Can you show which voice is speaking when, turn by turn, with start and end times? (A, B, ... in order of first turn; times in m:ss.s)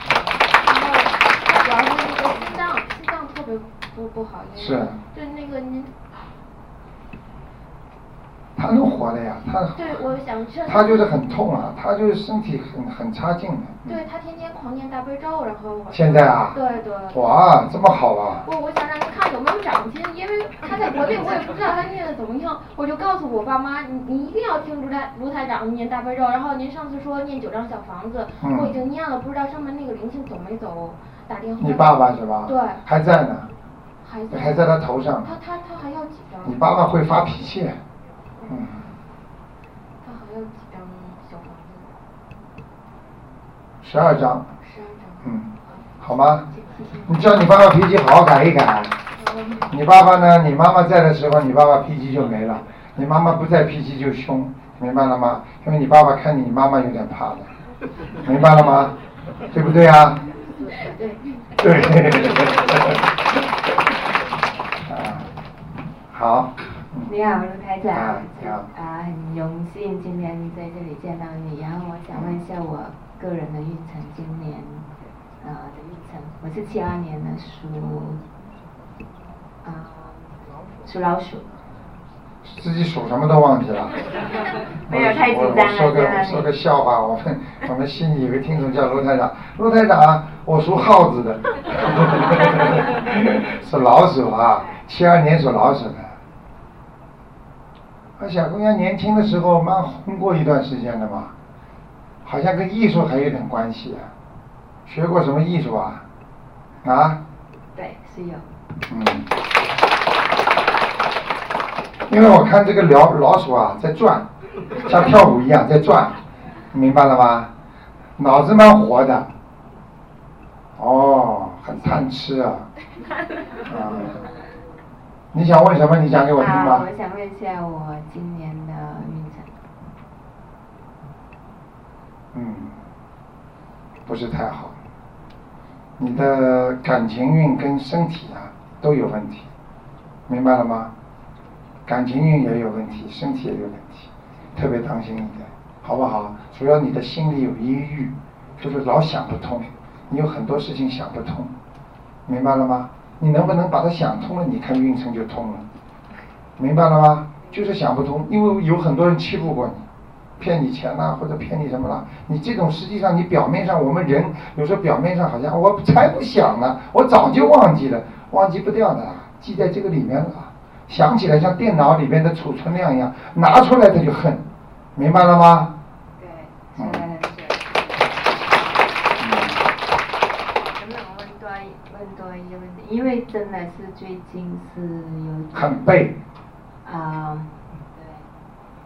0:00.3-0:05.9 A
0:04.6-0:05.0 B
0:08.6-0:10.1 B
0:09.8-0:11.2 A
0:10.6-0:14.0 B
0:13.8-0:17.3 A
0:15.9-0:18.5 B
0:18.4-0:32.8 A
0:28.4-0:28.8 B
0:31.6-0:33.5 B
0:34.0-0:36.6 A
0:34.3-0:35.3 B
0:36.4-0:37.8 B
0:38.4-0:38.8 A
0:38.5-0:38.8 B
0:40.0-0:42.0 A
0:43.8-0:44.5 B
0:44.6-0:45.3 A
0:45.2-0:45.5 B
0:46.0-0:46.5 B
0:46.5-0:47.1 C
0:46.6-0:47.1 A
0:47.0-0:49.0 B
0:49.2-0:49.8 A
0:49.7-0:57.5 B
0:58.2-0:58.9 B
0:59.5-1:00.2 B
1:00.8-1:01.2 A
1:01.6-1:03.0 B
1:04.9-1:05.3 B
1:06.1-1:07.1 B
1:07.1-1:14.9 C
1:07.9-1:08.7 B
1:12.1-1:12.4 B
1:15.4-1:18.2 C
1:19.6-1:20.3 C
1:20.8-1:21.6 C
1:22.4-1:24.0 B
1:24.9-1:36.2 B
1:24.9-1:26.4 C
1:38.2-1:41.3 B
1:42.2-1:44.1 B
1:44.8-1:46.0 B
1:46.8-1:47.2 B
1:47.7-1:48.5 C
1:48.9-1:49.3 B
1:52.1-1:54.3 B
1:54.8-1:56.2 B
1:56.7-1:57.5 B
1:58.2-1:59.3 B
2:00.8-2:02.7 B
2:03.7-2:04.2 B
2:05.3-2:06.9 B
2:06.4-2:09.5 C
2:12.3-2:12.8 B
2:14.1-2:14.8 B
2:16.0-2:19.5 B
2:20.3-2:20.9 B
2:21.9-2:31.5 B
2:32.3-2:35.7 B
2:36.6-2:39.9 B
2:40.4-2:54.4 B
2:55.0-2:55.7 B
2:56.2-2:59.1 C
2:56.8-2:57.1 B
2:59.2-2:59.6 B
3:00.6-3:05.8 C
3:05.5-3:06.2 B
3:06.8-3:08.3 C